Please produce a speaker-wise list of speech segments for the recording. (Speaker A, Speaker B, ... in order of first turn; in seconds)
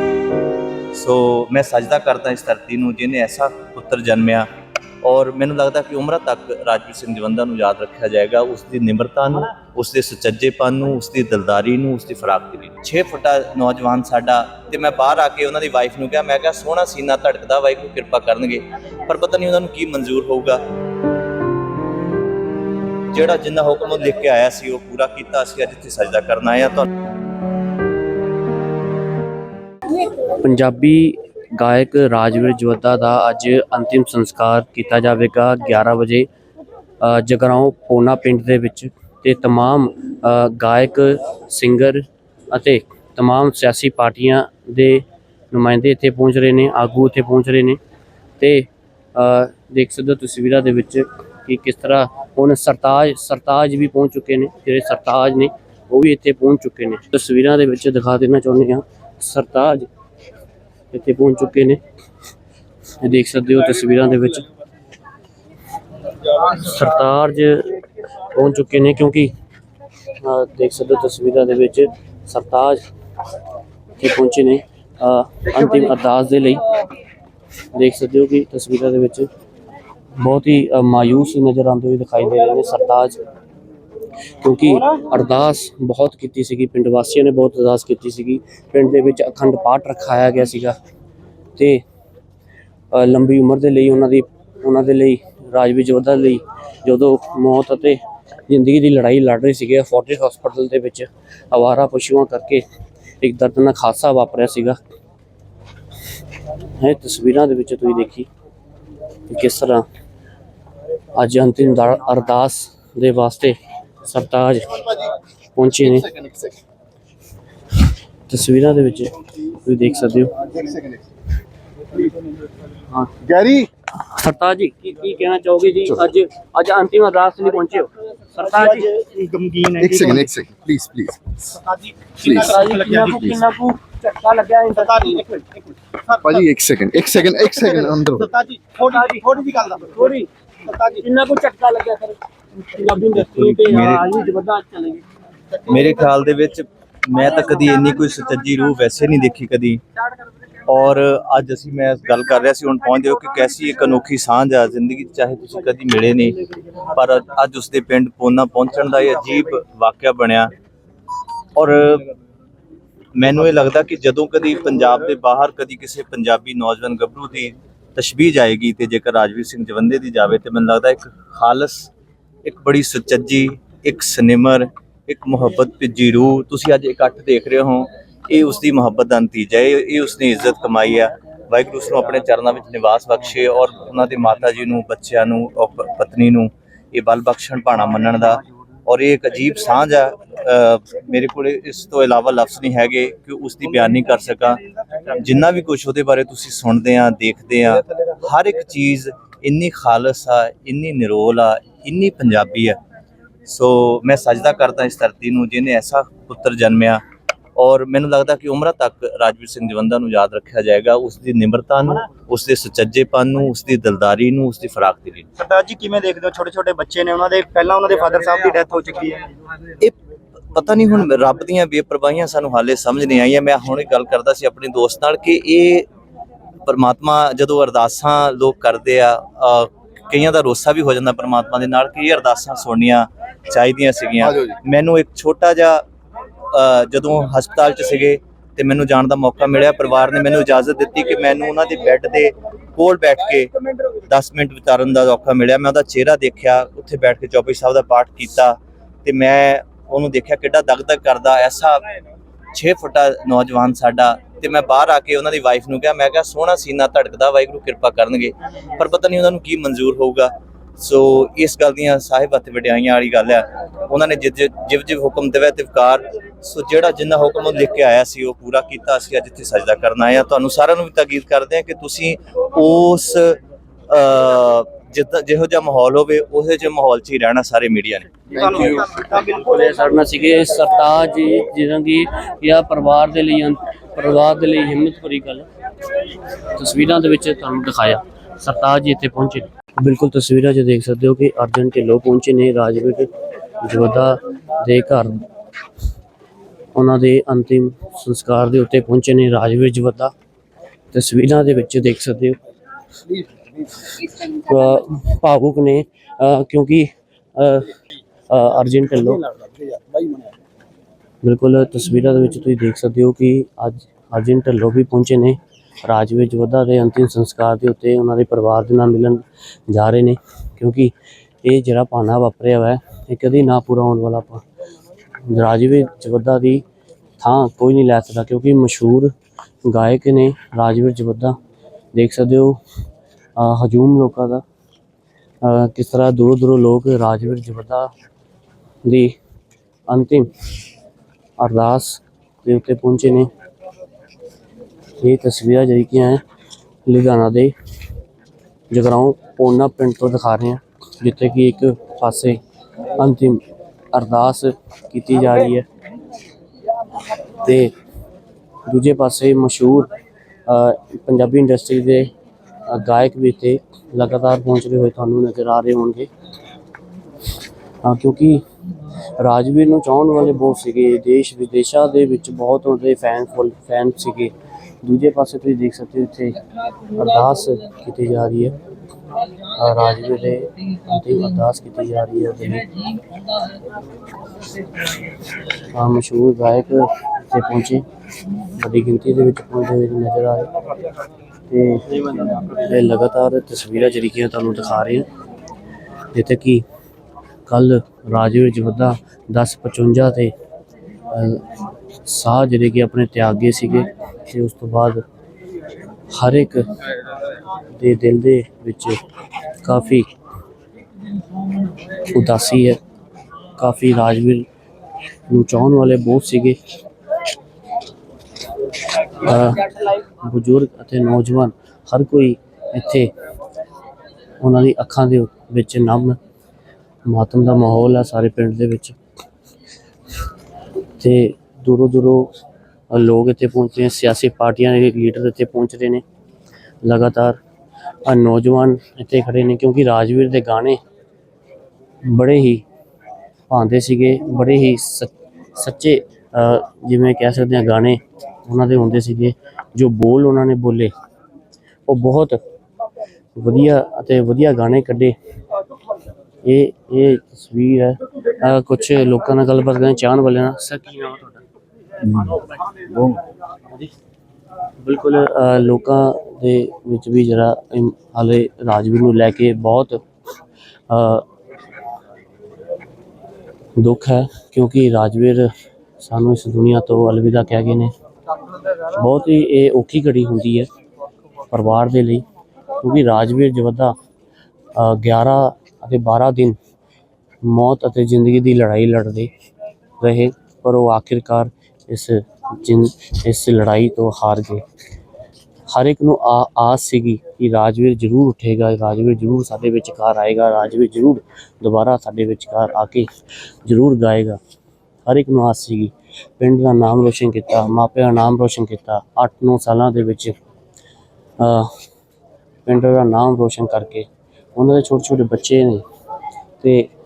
Speaker A: 0.9-4.5, 5.0-20.6, 23.1-26.9, 143.3-144.0, 145.6-149.8, 150.6-160.5, 161.6-162.1, 163.2-171.9, 172.4-202.8, 203.4-207.0, 207.6-215.3, 220.5-225.9, 226.6-235.8, 236.5-251.8, 252.5-278.1, 462.1-462.3
Speaker B: 30.1-36.3, 37.0-47.8, 48.4-59.9, 60.9-61.8, 63.0-64.4, 66.3-69.3, 70.2-72.8, 74.0-76.7, 77.7-79.3, 80.2-83.2, 84.4-90.8, 91.5-91.8, 92.9-98.0, 98.5-102.6, 103.2-104.8, 106.8-108.3, 109.3-109.8, 111.1-115.0, 115.5-116.1, 118.3-119.1, 119.6-120.3, 122.9-123.3, 124.0-128.9, 132.3-135.5, 138.8-145.0, 278.9-285.4, 286.6-293.1, 293.6-295.2, 296.7-300.1, 300.9-302.4, 303.7-307.8, 308.3-309.3, 311.2-324.4, 325.3-326.6, 327.2-329.1, 329.6-331.4, 331.9-332.6, 333.4-334.4, 335.4-337.9, 338.8-339.1, 339.9-340.3, 341.4-343.3, 345.0-346.2, 346.9-347.5, 348.7-352.4, 353.0-353.4, 353.9-355.6, 357.4-357.7, 358.7-359.9, 360.5-362.1, 362.7-366.1, 367.8-368.4, 369.2-374.3, 374.8-378.6, 379.4-383.0, 385.7-387.8, 388.4-390.5, 391.5-395.1, 396.1-396.6, 397.5-400.3, 401.1-405.0, 406.1-406.6, 407.8-410.1, 411.8-412.8, 413.6-414.4, 415.3-416.6, 419.0-423.1, 424.4-426.2, 427.1-428.9, 431.0-432.3, 432.9-436.0, 436.8-437.4, 438.1-440.8, 442.1-442.6, 443.5-450.9, 451.9-452.4, 453.4-455.1, 456.4-461.4, 464.8-470.0, 470.9-471.2, 473.8-475.5, 476.0-477.9, 478.8-480.7, 481.5-482.2, 482.8-483.9, 484.7-486.6, 487.4-489.3, 490.0-494.6, 495.7-503.1, 503.6-504.4, 505.1-510.4, 511.4-511.7, 512.6-515.8, 516.6-516.9
Speaker C: 115.9-116.6, 120.5-121.0, 123.3-123.7, 129.8-131.4, 132.2-132.5, 136.2-138.3, 234.2-234.5, 278.3-278.9
Speaker D: 128.6-129.7, 131.5-133.1, 135.0-135.5, 138.3-139.8, 215.4-219.3